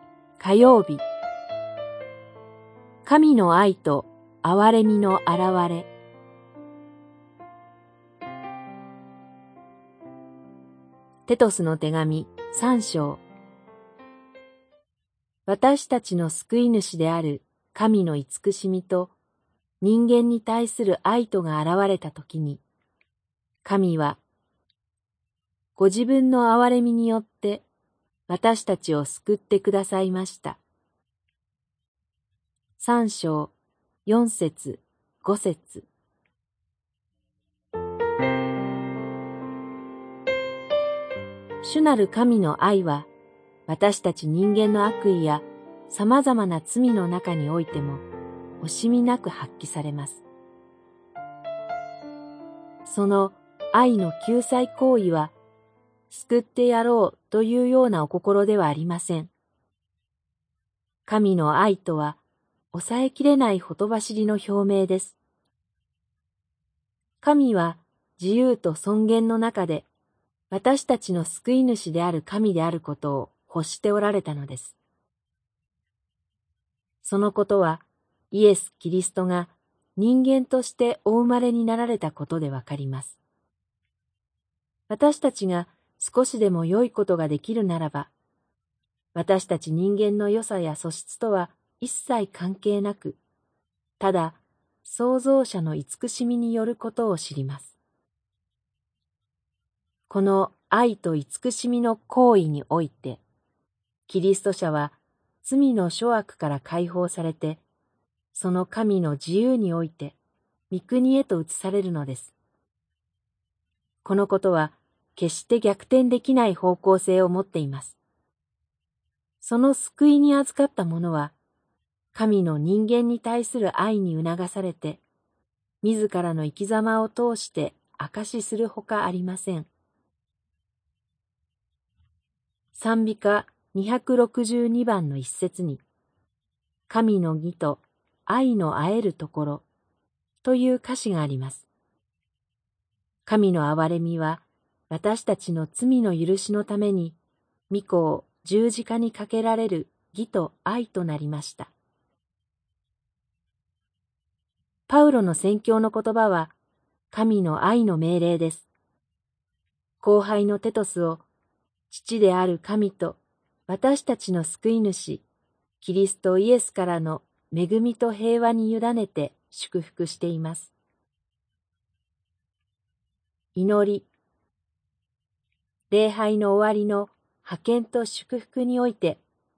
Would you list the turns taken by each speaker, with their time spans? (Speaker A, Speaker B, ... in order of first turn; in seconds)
Speaker A: 0.4-1.0, 3.0-5.9, 11.3-13.2, 15.4-19.1, 19.8-22.6, 23.6-24.2, 25.7-27.6, 28.3-30.6, 32.8-33.5, 34.0-35.9, 41.6-43.1, 43.7-48.0, 48.6-50.2, 52.8-55.3, 56.1-59.3, 61.0-62.2, 62.7-65.2, 67.2-69.9, 70.5-74.8, 77.0-83.2, 84.9-88.1, 89.1-93.2, 94.0-97.8, 100.1-103.2, 104.1-107.6, 108.3-110.2, 110.7-112.3, 114.0-118.0, 119.4-121.3, 122.1-125.0, 125.8-129.7, 132.7-135.8, 136.9-139.6, 140.4-141.7, 143.2-147.2, 147.7-151.7, 154.9-156.5, 157.1-158.7, 160.0-161.2, 161.9-165.2, 165.8-170.7, 173.5-174.1, 175.9-179.2